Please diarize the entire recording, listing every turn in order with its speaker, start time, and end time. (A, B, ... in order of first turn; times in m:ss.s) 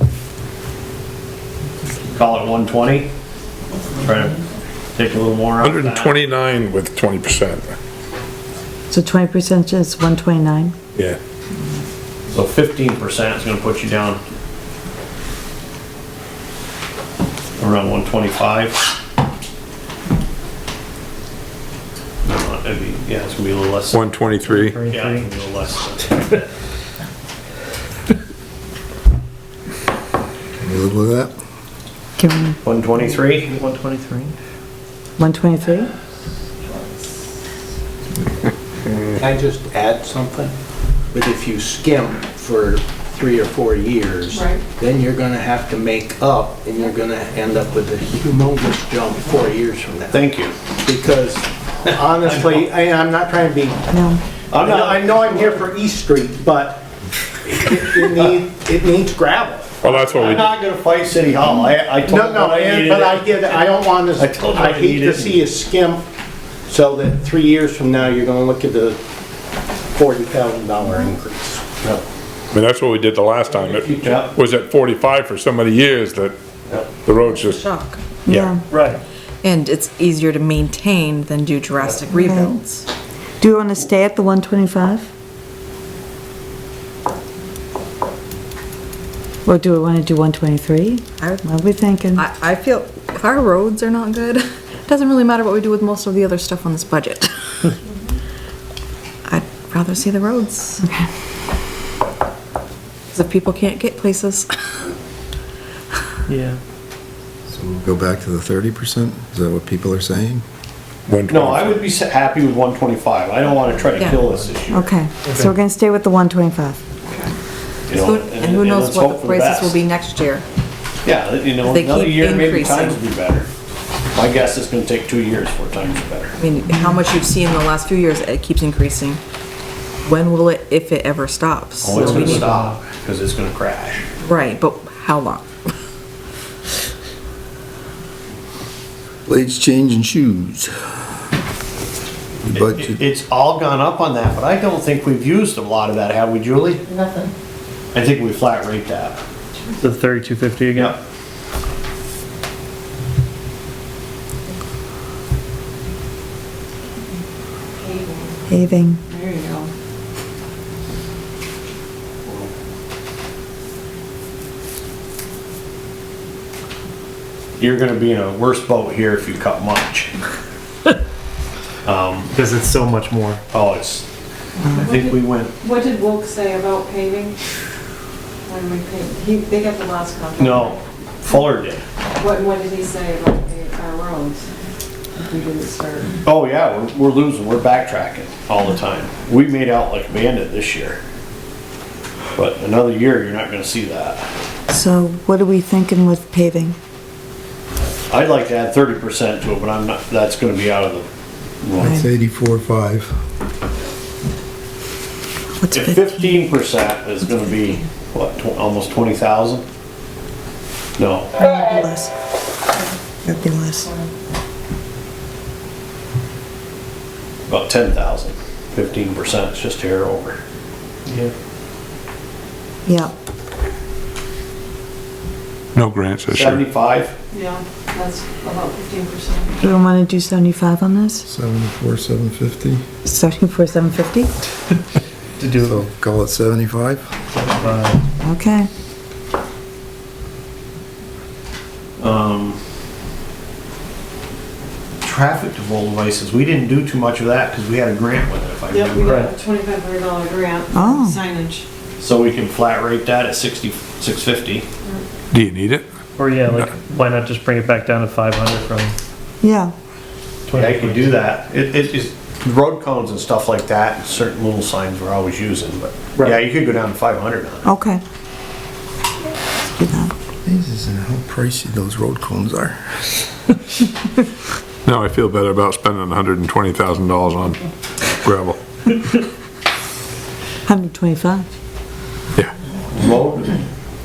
0:02.1-0:03.1 A
0:04.0-0:04.4 A
0:05.0-0:06.2 A
0:05.6-0:07.8 B
0:08.9-0:10.7 C
0:12.3-0:14.2 A
0:17.6-0:18.8 A
0:22.2-0:24.1 A
0:23.9-0:24.8 B
0:24.4-0:25.3 D
0:24.9-0:26.4 A
0:30.6-0:31.3 E
0:32.2-0:32.6 C
0:32.6-0:33.5 A
0:33.0-0:34.3 D
0:35.2-0:35.9 C
0:39.2-0:40.5 F
0:41.1-0:50.3 F
0:44.3-0:44.6 G
0:50.1-0:50.6 A
0:50.8-0:53.9 F
0:52.2-0:52.6 A
0:53.9-0:54.2 C
0:54.5-0:55.6 A
0:54.6-0:56.9 F
0:57.5-0:59.8 F
0:59.8-1:00.5 B
0:59.9-1:05.4 A
1:02.0-1:06.0 F
1:06.7-1:09.0 F
1:09.9-1:11.6 F
1:12.5-1:16.3 B
1:13.9-1:14.3 A
1:17.0-1:17.7 B
1:17.3-1:18.0 H
1:18.3-1:18.6 C
1:18.3-1:18.6 B
1:18.7-1:19.0 D
1:19.4-1:22.8 H
1:22.1-1:22.6 C
1:23.4-1:25.1 C
1:29.5-1:32.3 C
1:32.2-1:37.3 H
1:39.3-1:40.8 H
1:43.1-1:44.5 H
1:46.3-1:46.6 D
1:47.5-1:50.4 E
1:51.1-1:51.8 B
1:51.3-1:55.0 A
1:54.0-1:54.3 H
1:54.7-1:56.8 C
1:55.2-1:55.5 D
1:57.1-1:57.3 G
1:57.9-1:59.8 A
1:57.9-2:00.4 H
2:01.0-2:03.5 A
2:01.6-2:03.0 H
2:04.1-2:06.3 A
2:06.4-2:09.2 H
2:10.0-2:12.7 H
2:11.8-2:14.1 A
2:11.9-2:12.8 D
2:14.2-2:15.5 H
2:19.3-2:20.7 E
2:22.5-2:23.0 E
2:22.5-2:26.8 A
2:27.9-2:29.2 A
2:29.8-2:31.0 D
2:37.8-2:38.4 G
2:38.5-2:39.0 C
2:39.1-2:39.7 G
2:47.6-2:50.1 A
2:51.8-2:52.3 A
2:52.3-2:53.4 D
2:53.5-2:54.1 A
2:54.7-2:55.5 A
2:54.8-2:57.4 G
2:58.5-3:00.8 G
3:00.4-3:01.8 A
3:02.2-3:04.4 G
3:05.2-3:06.2 G
3:06.2-3:11.0 A
3:12.4-3:14.3 A
3:14.7-3:16.8 C
3:18.1-3:21.1 A
3:21.6-3:22.0 A
3:21.8-3:23.1 E
3:21.8-3:22.1 C
3:25.6-3:26.4 C
3:25.7-3:29.6 A
3:31.0-3:31.4 A
3:31.4-3:32.1 C
3:33.2-3:34.0 C
3:37.5-3:40.4 A
3:41.1-3:41.3 D
3:42.9-3:43.1 C
3:45.8-3:46.6 B
3:46.3-3:47.1 A
3:47.3-3:49.6 G
3:49.6-3:51.2 C
3:51.3-3:52.8 E
3:53.0-3:54.3 C
3:55.4-3:55.8 D
3:55.6-3:57.1 E
3:57.3-3:58.0 D
3:58.2-3:58.7 C
4:02.0-4:02.6 A
4:05.0-4:09.3 A
4:08.7-4:11.6 G
4:09.0-4:09.3 D
4:10.7-4:11.2 C
4:12.0-4:14.7 A
4:15.3-4:15.8 B
4:16.2-4:19.0 D
4:19.4-4:19.7 C
4:20.5-4:21.2 D
4:20.5-4:27.7 A
4:27.6-4:28.0 C
4:29.7-4:30.1 C
4:30.5-4:32.8 E
4:34.8-4:37.6 B
4:38.2-4:39.2 B
4:40.7-4:41.4 C
4:42.9-4:43.5 A